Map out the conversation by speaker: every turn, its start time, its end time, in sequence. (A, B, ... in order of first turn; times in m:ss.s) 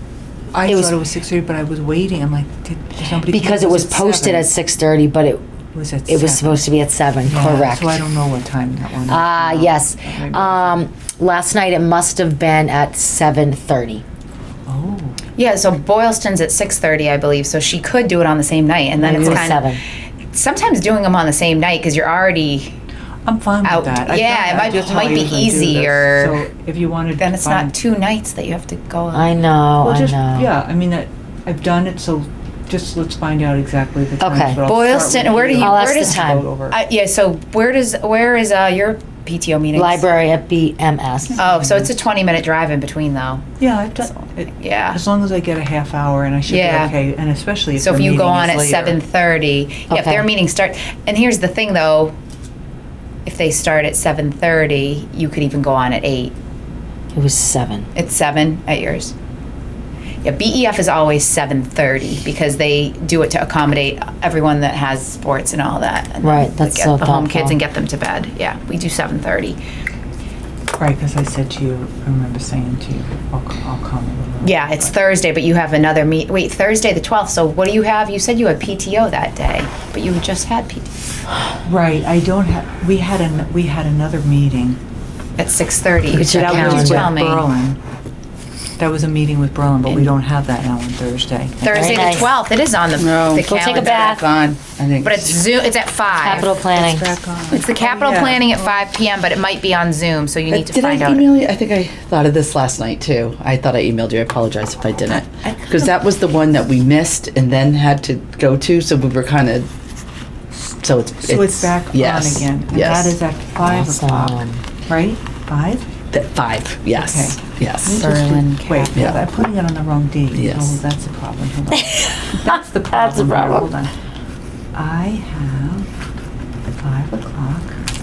0:00.5-0:04.5 A
0:00.6-0:01.0 B
0:03.2-0:05.4 B
0:05.7-0:06.7 A
0:06.1-0:08.1 B
0:07.2-0:10.8 A
0:09.1-0:14.0 B
0:14.7-0:15.2 A
0:15.4-0:19.8 C
0:19.0-0:19.8 B
0:19.0-0:19.6 A
0:20.3-0:22.8 C
0:23.3-0:27.7 A
0:23.6-0:26.4 C
0:27.2-0:29.4 C
0:29.1-0:30.5 B
0:29.8-0:36.8 A
0:34.2-0:34.6 B
0:34.6-0:40.0 C
0:35.5-0:36.5 B
0:39.8-0:41.4 B
0:41.4-0:41.9 A
0:41.4-0:43.5 C
0:43.6-0:49.0 A
0:44.1-0:45.0 C
0:46.5-0:47.0 C
0:47.8-0:52.2 C
0:49.9-0:50.3 B
0:53.3-0:56.3 C
0:57.1-0:57.9 B
0:58.0-0:59.1 C
1:00.2-1:09.6 C
1:06.2-1:07.6 B
1:10.8-1:15.0 A
1:14.4-1:20.9 C
1:21.6-1:24.8 A
1:25.4-1:27.5 C
1:26.1-1:27.1 B
1:26.2-1:27.8 A
1:28.8-1:32.3 A
1:31.6-1:34.3 C
1:31.7-1:32.3 B
1:33.0-1:35.4 D
1:33.5-1:34.3 B
1:35.0-1:36.5 C
1:36.1-1:37.1 B
1:36.2-1:39.0 A
1:37.5-1:41.3 C
1:40.5-1:49.7 D
1:45.1-1:46.0 A
1:50.6-1:53.2 D
1:51.2-1:55.9 A
1:53.6-1:54.6 B
1:56.1-1:58.0 D
1:56.9-2:03.9 A
1:57.8-1:59.2 C
1:58.9-1:59.2 D
2:00.3-2:00.8 D
2:01.8-2:03.7 B
2:04.7-2:05.9 A
2:06.7-2:07.8 A